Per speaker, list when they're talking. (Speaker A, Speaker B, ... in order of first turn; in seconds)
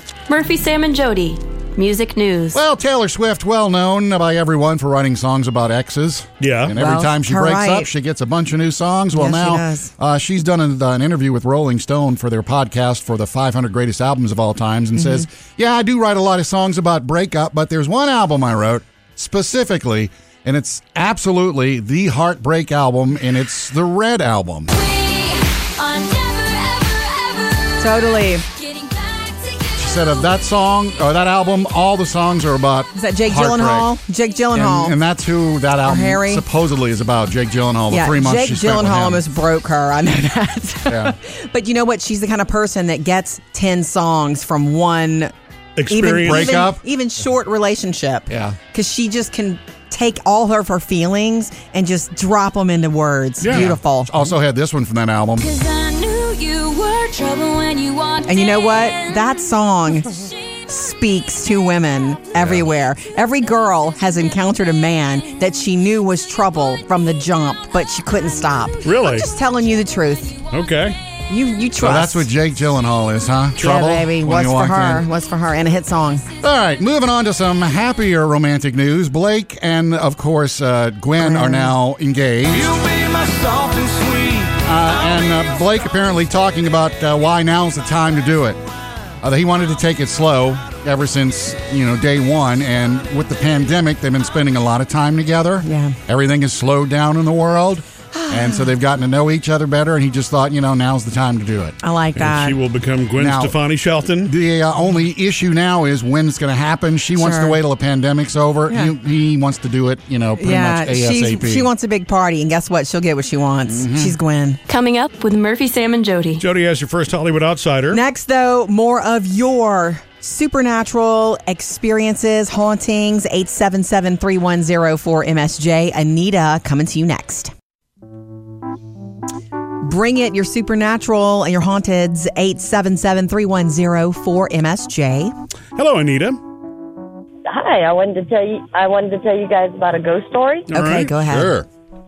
Speaker A: 0.3-2.6, 24.7-30.1, 55.4-59.3, 114.7-116.4
Speaker B: 2.5-24.7, 29.8-33.9, 34.5-39.2, 40.9-41.1, 46.2-46.8, 48.3-48.6, 53.5-55.5, 62.4-62.6, 71.8-75.0, 76.4-82.8, 84.5-88.6, 89.2-101.8, 103.2-103.6, 104.3-111.7, 113.7-114.1, 141.3-141.7
Speaker C: 6.4-6.7, 45.8-46.5, 53.4-53.7, 68.8-69.3, 70.5-71.0, 102.2-104.3, 116.4-118.0, 135.8-136.4, 140.7-141.1
Speaker D: 6.8-7.9, 9.1-9.9, 14.9-15.3, 27.8-28.4, 32.9-35.0, 35.8-36.4, 37.9-45.3, 45.9-54.1, 58.3-60.1, 60.7-70.4, 71.3-72.3, 73.6-76.3, 81.2-81.7, 95.6-96.0, 98.1-98.7, 101.8-102.6, 107.2-107.6, 110.4-114.6, 117.9-127.5, 129.8-135.3, 140.7-141.5
Speaker E: 137.5-140.7